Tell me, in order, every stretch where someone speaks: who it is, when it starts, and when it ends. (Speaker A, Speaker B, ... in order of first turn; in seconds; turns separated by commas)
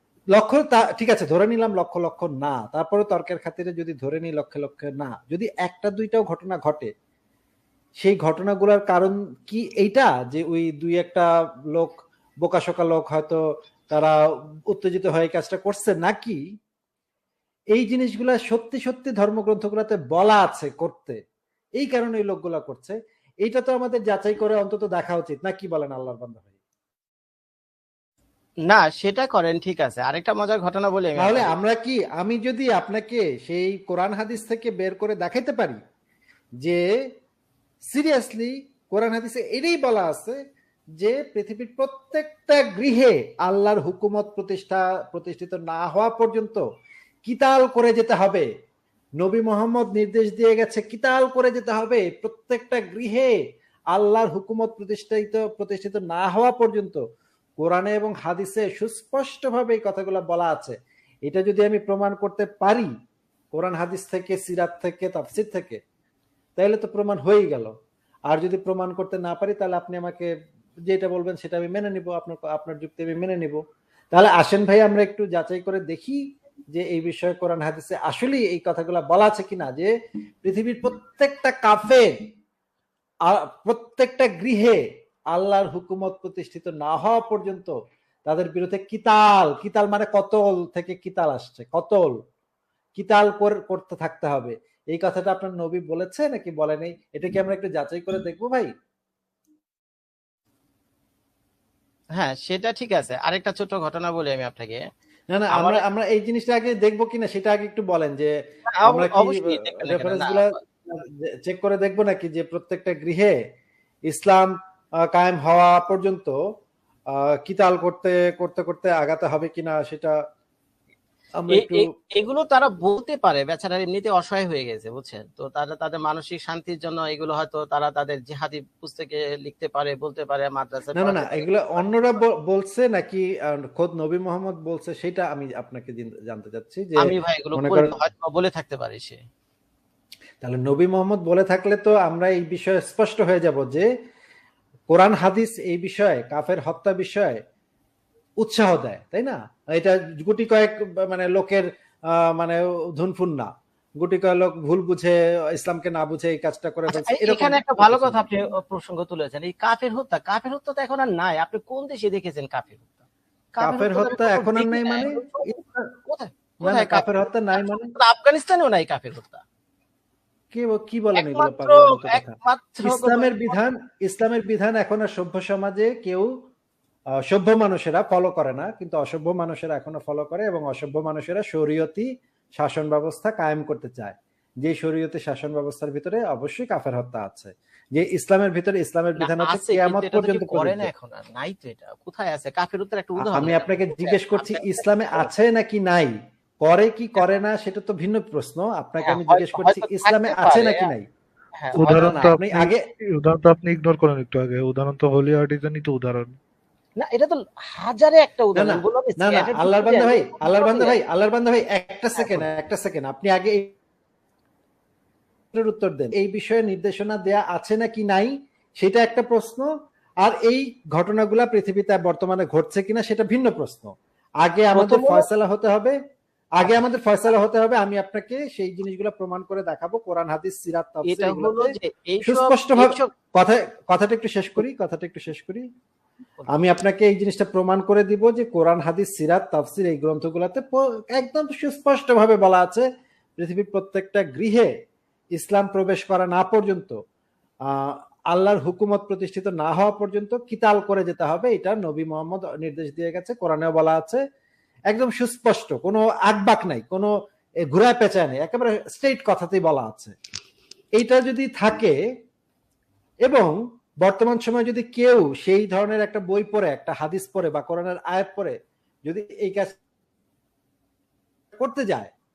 Speaker A: 0.3-6.9, Speaker A: 8.0-16.4, Speaker A: 17.7-21.2, Speaker A: 21.8-26.5, Speaker B: 28.6-31.5, Speaker A: 31.2-35.8, Speaker A: 37.8-40.4, Speaker A: 41.0-46.6, Speaker A: 47.2-48.5, Speaker A: 49.2-53.4, Speaker A: 53.9-57.0, Speaker A: 57.6-62.9, Speaker A: 63.5-65.8, Speaker A: 66.6-67.7, Speaker A: 68.3-70.3, Speaker A: 70.9-76.2, Speaker A: 76.7-82.1, Speaker A: 83.2-87.7, Speaker A: 88.2-92.2, Speaker A: 93.0-98.7, Speaker B: 102.2-104.8, Speaker A: 105.3-113.3, Speaker B: 105.5-105.8, Speaker B: 108.7-110.6, Speaker A: 114.1-114.5, Speaker A: 115.0-116.4, Speaker A: 117.1-120.2, Speaker A: 121.4-121.9, Speaker B: 121.5-131.9, Speaker A: 130.9-137.9, Speaker B: 137.0-139.2, Speaker A: 140.4-143.9, Speaker A: 144.9-147.4, Speaker A: 148.4-158.2, Speaker B: 156.9-162.9, Speaker B: 163.5-169.4, Speaker A: 163.6-165.9, Speaker A: 166.6-167.9, Speaker A: 170.5-176.3, Speaker B: 171.1-173.6, Speaker A: 177.1-190.9, Speaker B: 189.2-195.3, Speaker A: 193.2-201.1, Speaker B: 199.0-200.9, Speaker B: 201.6-202.3, Speaker C: 201.8-206.3, Speaker A: 201.8-202.8, Speaker B: 207.0-211.0, Speaker A: 208.5-213.7, Speaker A: 215.5-219.7, Speaker A: 220.2-226.0, Speaker B: 224.7-225.3, Speaker A: 226.5-235.7, Speaker B: 231.0-233.1, Speaker A: 236.5-244.7, Speaker A: 245.3-247.0, Speaker A: 247.6-254.2, Speaker A: 254.9-257.1, Speaker A: 257.7-260.1, Speaker A: 260.9-261.9, Speaker A: 263.2-269.8, Speaker A: 271.5-272.1